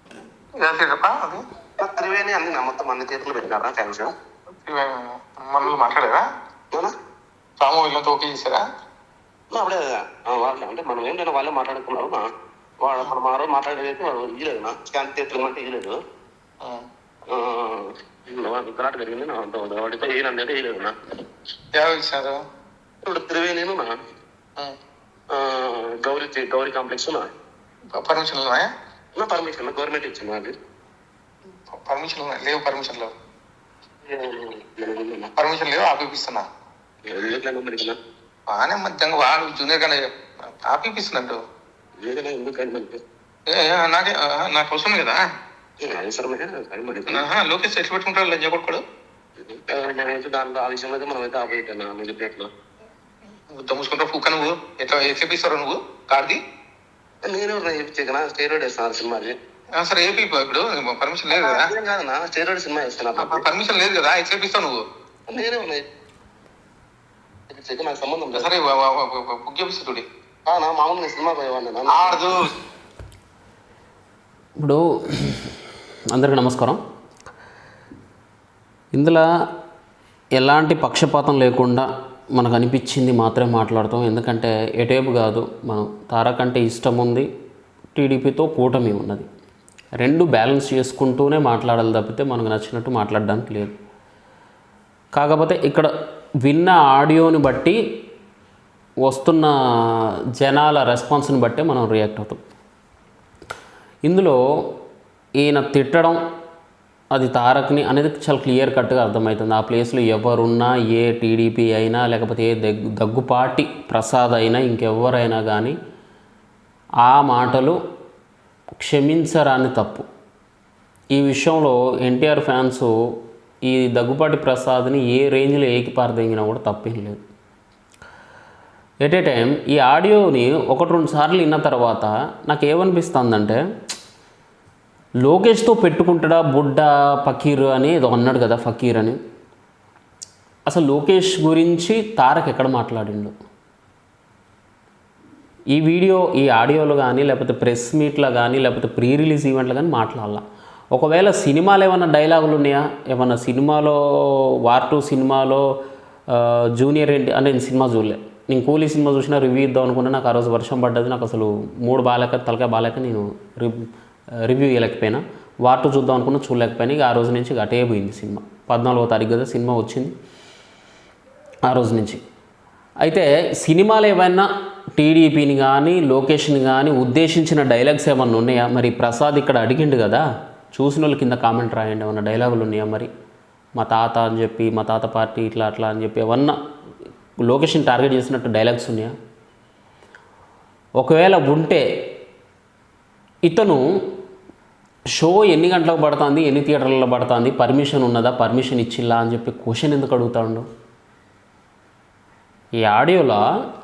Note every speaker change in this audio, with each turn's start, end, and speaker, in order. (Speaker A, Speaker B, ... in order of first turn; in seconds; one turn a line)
Speaker A: 0.6-1.4
Speaker B: 1.8-4.1
Speaker A: 4.7-6.3
Speaker A: 7.6-8.6
Speaker B: 9.5-12.2
Speaker B: 12.8-16.0
Speaker B: 17.3-20.9
Speaker A: 21.7-22.4
Speaker B: 23.1-24.0
Speaker B: 25.3-27.3
Speaker A: 27.9-28.7
Speaker B: 29.2-30.5
Speaker A: 31.7-33.1
Speaker B: 34.1-35.3
Speaker A: 35.4-36.5
Speaker B: 37.1-38.0
Speaker A: 38.5-41.4
Speaker B: 42.0-43.0
Speaker A: 43.5-45.2
Speaker B: 45.8-47.3
Speaker A: 47.1-48.8
Speaker B: 49.5-52.5
Speaker A: 53.5-56.4
Speaker B: 57.2-59.3
Speaker A: 59.8-61.7
Speaker B: 61.3-63.5
Speaker A: 63.2-64.8
Speaker B: 65.3-65.8
Speaker B: 67.5-68.5
Speaker A: 68.3-70.1
Speaker B: 70.5-72.2
Speaker A: 71.9-72.5
Speaker C: 74.6-76.8
Speaker C: 78.9-79.2
Speaker C: 80.4-87.3
Speaker C: 87.9-89.3
Speaker C: 90.0-93.8
Speaker C: 95.1-95.9
Speaker C: 96.4-97.8
Speaker C: 99.0-102.4
Speaker C: 104.0-104.7
Speaker C: 105.4-106.2
Speaker C: 107.1-115.8
Speaker C: 117.0-117.8
Speaker C: 118.8-120.1
Speaker C: 121.1-127.2
Speaker C: 129.0-133.6
Speaker C: 135.2-139.2
Speaker C: 140.7-143.3
Speaker C: 145.7-155.7
Speaker C: 156.3-163.9
Speaker C: 164.4-170.1
Speaker C: 171.7-172.2
Speaker C: 173.0-183.1
Speaker C: 183.8-186.6
Speaker C: 187.4-189.1
Speaker C: 191.0-191.8
Speaker C: 193.4-194.1
Speaker C: 195.1-200.7
Speaker C: 202.8-203.4